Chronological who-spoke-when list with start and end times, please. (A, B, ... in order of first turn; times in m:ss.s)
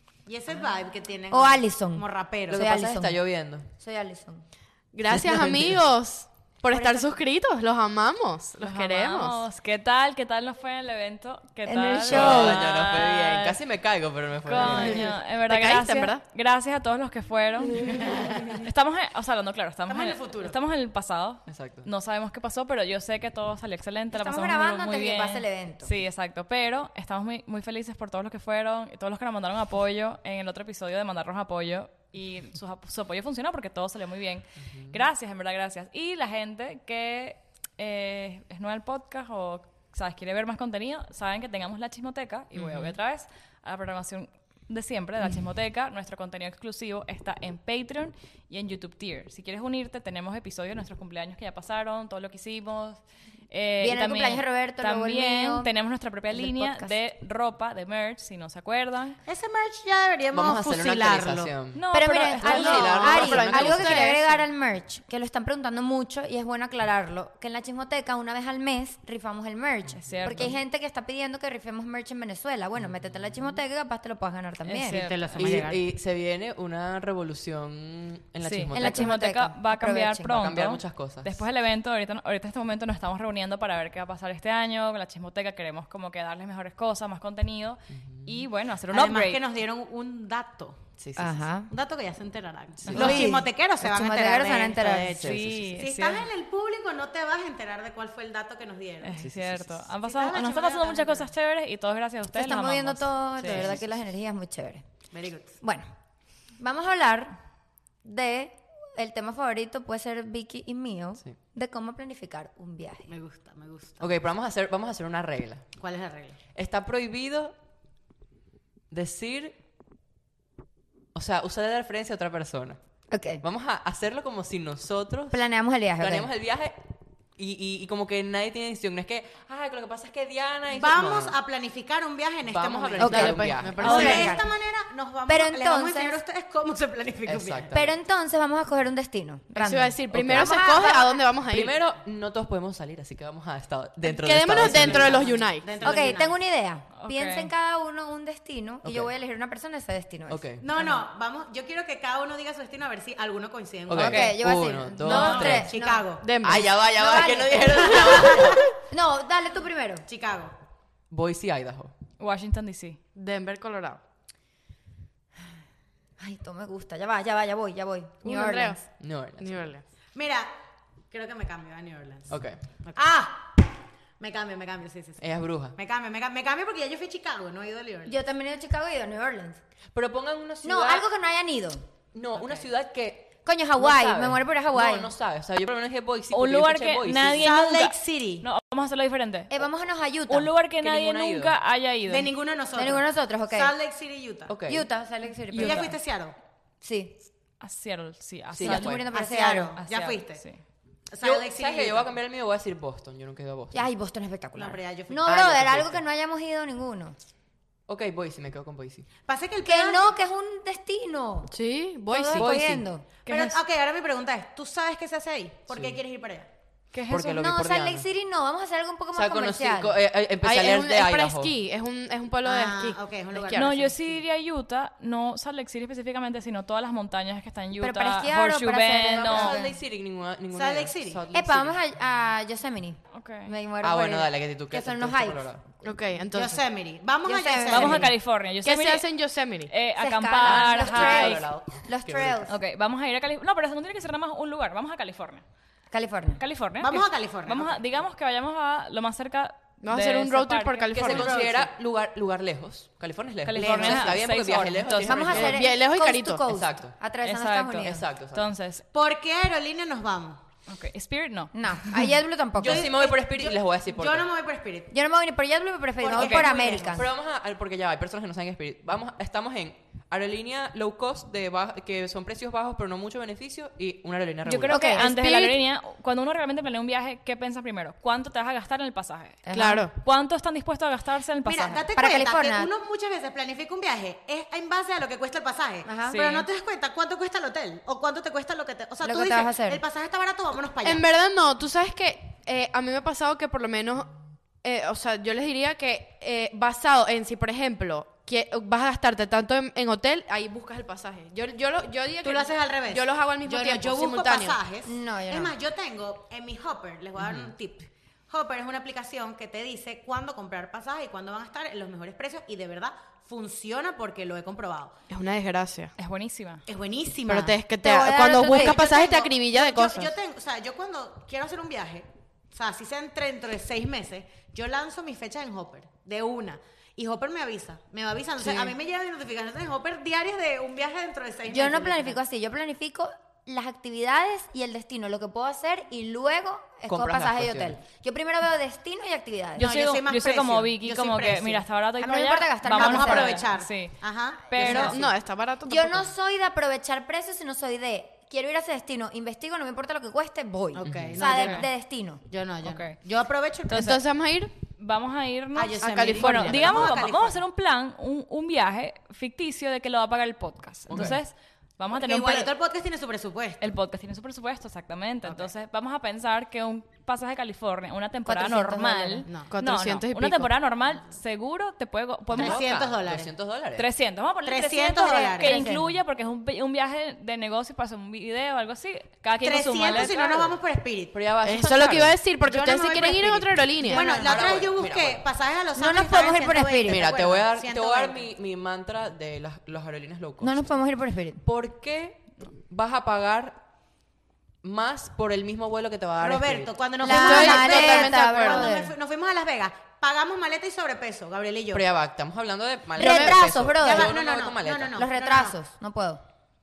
0:00.3-0:02.6 A
0:01.3-0:03.2 B
0:02.5-0:03.7 C
0:03.8-0:04.4 B
0:04.9-0:09.4 D
0:05.1-0:05.8 C
0:06.7-0:07.2 B
0:08.6-0:13.6 E
0:11.7-0:12.6 B
0:12.1-0:15.1 C
0:14.4-0:59.2 E
0:14.6-0:16.2 D
0:17.9-0:18.4 D
0:18.1-0:18.5 A
0:19.9-0:20.6 A
0:21.5-0:21.9 C
0:24.1-0:25.9 B
0:34.6-0:35.1 C
0:42.6-0:43.0 C
0:53.8-0:55.7 B
0:56.3-0:57.0 B
0:59.3-1:01.5 A
1:00.3-1:01.8 C
1:01.7-1:03.3 E
1:01.9-1:15.0 B
1:02.4-1:04.1 C
1:02.6-1:04.3 D
1:09.9-1:10.6 C
1:10.0-1:10.6 E
1:12.8-1:13.4 C
1:14.6-1:15.7 E
1:14.9-1:15.8 A
1:15.4-1:19.1 C
1:18.4-1:29.4 E
1:18.7-1:20.4 B
1:20.3-1:21.4 C
1:27.9-1:28.5 C
1:28.9-1:30.8 A
1:31.0-1:31.4 C
1:31.2-1:31.7 B
1:31.7-1:39.2 A
1:32.8-1:33.3 C
1:32.9-1:35.2 B
1:35.1-1:36.3 E
1:35.2-1:35.8 C
1:39.0-1:43.1 E
1:39.2-1:39.8 C
1:40.0-1:41.3 A
1:42.3-1:44.8 B
1:43.4-1:43.8 C
1:45.1-1:45.6 A
1:45.6-1:45.9 B
1:46.6-1:47.4 B
1:48.0-1:53.1 B
1:53.1-1:54.1 A
1:54.0-1:55.7 C
1:55.8-1:56.4 A
1:56.6-1:57.6 C
1:58.9-1:59.6 C
2:01.1-2:02.8 C
2:03.1-2:03.4 B
2:03.4-2:05.4 C
2:05.3-2:06.3 B
2:06.0-2:06.8 C
2:07.4-2:11.4 C
2:10.7-2:17.7 A
2:12.5-2:14.3 C
2:13.0-2:14.4 B
2:13.0-2:14.5 D
2:13.8-2:14.2 E
2:15.3-2:16.2 B
2:17.3-2:17.9 C
2:17.7-2:21.3 B
2:19.5-2:21.8 D
2:20.1-2:20.6 C
2:21.5-2:25.4 C
2:24.0-2:25.8 D
2:24.6-2:26.4 A
2:25.8-2:30.4 B
2:26.9-2:27.5 E
2:28.8-2:29.1 C
2:30.3-2:30.6 C
2:30.6-2:34.3 A
2:33.9-2:35.7 C
2:34.0-2:36.1 B
2:34.0-2:34.3 E
2:35.0-2:35.6 E
2:35.1-2:36.3 A
2:36.2-2:36.7 D
2:36.4-2:38.6 C
2:36.8-2:40.1 B
2:37.8-2:38.5 A
2:40.1-2:40.5 A
2:41.1-2:41.9 C
2:42.2-2:43.0 E
2:43.2-2:44.0 D
2:46.2-2:48.8 B
2:48.2-2:48.8 D
2:49.0-2:49.6 C
2:49.4-2:49.8 D
2:50.1-2:50.5 A
2:51.1-2:53.3 A
2:52.3-2:52.6 C
2:53.0-2:53.4 B
2:54.2-2:55.2 A
2:55.2-2:55.8 C
2:55.8-2:58.2 A
2:58.1-2:59.6 B
2:59.9-3:01.1 C
3:00.6-3:01.8 B
3:02.1-3:07.5 C
3:02.4-3:02.7 A
3:03.4-3:05.1 B
3:06.3-3:09.5 E
3:07.4-3:08.5 A
3:09.5-3:10.5 B
3:10.3-3:12.3 E
3:10.8-3:11.6 C
3:12.1-3:14.5 A
3:12.8-3:13.7 B
3:14.5-3:14.9 C
3:14.7-3:15.9 B
3:15.5-3:15.9 E
3:15.6-3:16.4 A
3:16.8-3:17.2 B
3:17.6-3:19.1 E
3:18.5-3:19.0 C
3:18.6-3:19.8 B
3:19.1-3:20.4 A
3:19.8-3:20.6 E
3:21.1-3:22.1 A
3:21.2-3:23.9 C
3:23.7-3:27.2 B
3:24.6-3:25.4 A
3:25.3-3:26.0 C
3:27.9-3:29.1 C
3:29.3-3:30.1 A
3:29.6-3:31.5 B
3:31.5-3:32.6 D
3:32.1-3:33.1 B
3:32.3-3:32.9 C
3:33.3-3:33.6 E
3:33.3-3:36.5 A
3:35.7-3:36.0 C
3:36.9-3:37.3 E
3:37.1-3:38.1 C
3:37.1-3:40.0 B
3:39.1-3:41.5 C
3:40.4-3:43.9 D
3:42.4-3:44.2 A
3:43.5-3:49.6 E
3:47.8-3:49.8 B
3:49.2-3:51.8 C
3:50.5-3:51.2 A
3:51.3-3:55.4 B
3:53.1-3:53.5 E
3:53.8-3:55.6 C
3:55.8-3:56.6 D
3:56.3-3:58.1 A
3:57.3-3:58.1 B
3:57.7-3:59.1 E
3:58.6-3:59.7 D
3:59.7-4:01.5 E
4:00.0-4:02.6 B
4:00.5-4:02.5 C
4:02.5-4:05.4 E
4:05.9-4:06.4 B
4:06.4-4:11.2 E
4:06.8-4:07.8 A
4:09.8-4:11.5 D
4:10.9-4:15.7 C
4:11.1-4:11.7 A
4:13.4-4:15.5 E
4:13.6-4:14.2 A
4:15.0-4:18.0 B
4:15.3-4:16.4 D
4:16.5-4:17.0 C
4:17.2-4:18.9 E
4:17.8-4:18.5 C
4:18.9-4:20.4 A
4:20.7-4:22.0 E
4:21.5-4:22.9 B
4:22.6-4:24.3 C
4:22.6-4:24.9 A
4:24.9-4:27.1 B
4:26.0-4:27.1 A
4:26.2-4:26.5 E
4:26.8-4:34.7 C
4:34.5-4:41.9 E
4:34.7-4:35.6 D
4:34.7-4:35.2 B
4:39.5-4:39.9 B
4:39.5-4:39.9 D
4:41.5-4:51.0 A
4:42.0-4:42.7 B
4:45.8-4:46.2 B
4:46.1-4:46.5 E
4:49.0-4:49.8 B
4:50.8-5:04.6 D
5:02.2-5:15.0 A
5:04.8-5:05.5 B
5:07.2-5:07.5 C
5:15.1-5:15.9 D
5:16.0-5:16.6 E
5:16.7-5:17.6 A
5:17.3-5:20.2 D
5:17.8-5:19.0 B
5:18.5-5:32.2 A
5:28.4-5:28.7 D
5:31.5-5:39.7 B
5:36.9-5:37.8 C
5:39.6-5:45.0 E
5:39.6-5:41.6 A
5:42.0-5:43.4 B
5:42.7-5:45.0 A
5:44.6-5:45.0 C
5:44.6-5:45.0 B
5:44.6-5:46.1 D
5:45.7-5:52.2 B
5:50.7-5:51.7 A
5:50.8-5:51.2 C
5:51.2-5:51.6 D
5:52.3-5:53.8 A
5:52.6-5:53.0 E
5:53.7-5:54.0 E
5:53.7-5:54.5 D
5:54.7-6:02.5 E
5:55.6-5:57.4 A
5:55.8-5:56.9 D
6:00.9-6:01.2 C
6:01.9-6:03.7 A
6:03.6-6:12.7 E
6:05.2-6:05.5 A
6:08.3-6:09.3 B
6:09.5-6:10.5 D
6:12.3-6:13.3 A
6:12.3-6:13.9 C
6:13.8-6:20.6 E
6:14.4-6:15.6 A
6:15.4-6:15.9 B
6:19.4-6:21.2 A
6:21.1-6:22.2 C
6:21.4-6:24.1 D
6:22.5-6:28.3 A
6:23.8-6:24.2 B
6:24.1-6:25.2 C
6:25.8-6:27.1 B
6:26.8-6:30.6 C
6:30.4-6:31.4 B
6:31.4-6:33.6 C
6:34.6-6:36.7 C
6:36.2-6:41.8 A
6:37.0-6:38.9 B
6:37.0-6:38.8 D
6:41.7-6:45.0 C
6:43.0-6:44.2 B
6:43.0-6:43.4 D
6:43.0-6:45.6 A
6:45.0-6:46.2 B